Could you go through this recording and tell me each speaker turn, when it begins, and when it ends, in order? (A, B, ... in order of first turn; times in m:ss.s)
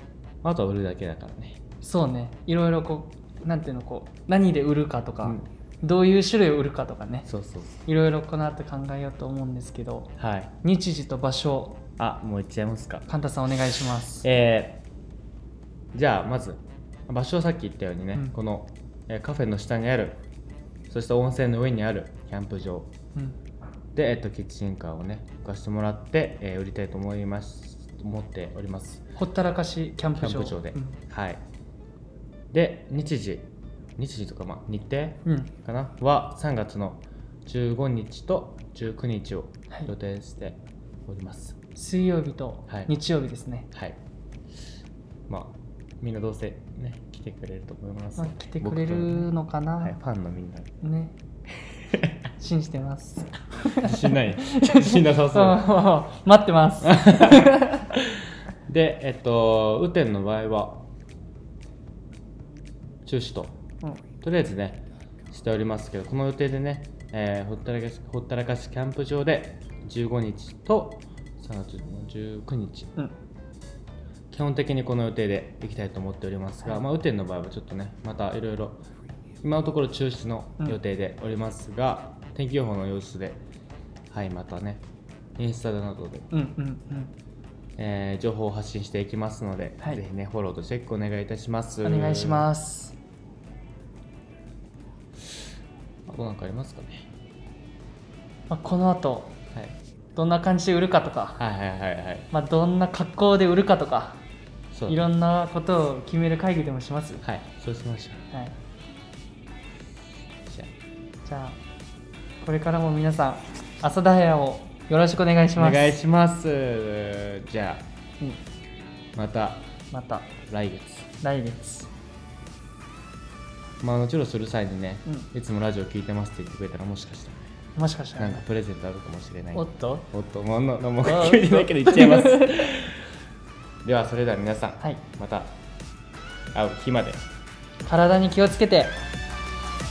0:00.4-0:01.6 A
0:01.8-0:07.3 B
0:07.3-0:07.8 A
0:07.8-0:11.8 B
0:10.2-0:10.5 A
0:12.0-0:13.1 A
0:13.1-0:14.2 B
0:14.2-0:14.8 A
0:15.9-0:20.2 A
0:20.9-0:22.9 A
0:23.9-0:29.0 A
0:29.2-0:31.0 B
0:30.1-0:31.4 A
0:32.5-0:41.6 A
0:35.2-0:35.5 B
0:41.7-0:43.7 B
0:43.7-0:44.0 A
0:45.3-0:50.7 A
0:48.2-0:50.0 B
0:50.8-0:51.1 B
0:52.4-0:57.8 B
0:53.8-0:55.7 A
0:56.8-0:58.1 A
0:58.7-1:00.8 A
1:03.0-1:03.6 A
1:04.2-1:12.9 A
1:14.3-1:18.8 A
1:19.4-1:23.4 A
1:24.1-1:24.8 A
1:25.4-1:26.3 A
1:26.3-1:27.1 B
1:27.8-1:32.5 A
1:31.8-1:33.0 B
1:36.0-1:37.1 A
1:38.5-1:39.4 B
1:40.2-1:41.4 B
1:41.4-1:42.3 A
1:42.3-1:44.2 B
1:44.7-1:45.0 A
1:44.9-1:47.2 B
1:47.2-1:48.2 A
1:48.3-1:48.6 B
1:50.4-1:50.7 A
1:51.2-1:51.6 B
1:52.4-1:56.0 B
1:55.6-1:57.9 A
1:59.1-1:59.7 A
1:59.9-2:00.3 B
2:00.5-2:01.1 A
2:01.2-2:01.9 B
2:03.8-2:07.5 A
2:07.8-2:08.4 B
2:08.2-2:13.0 A
2:09.5-2:10.1 B
2:11.0-2:12.6 B
2:13.8-2:15.6 A
2:16.5-2:17.2 A
2:17.8-2:19.0 B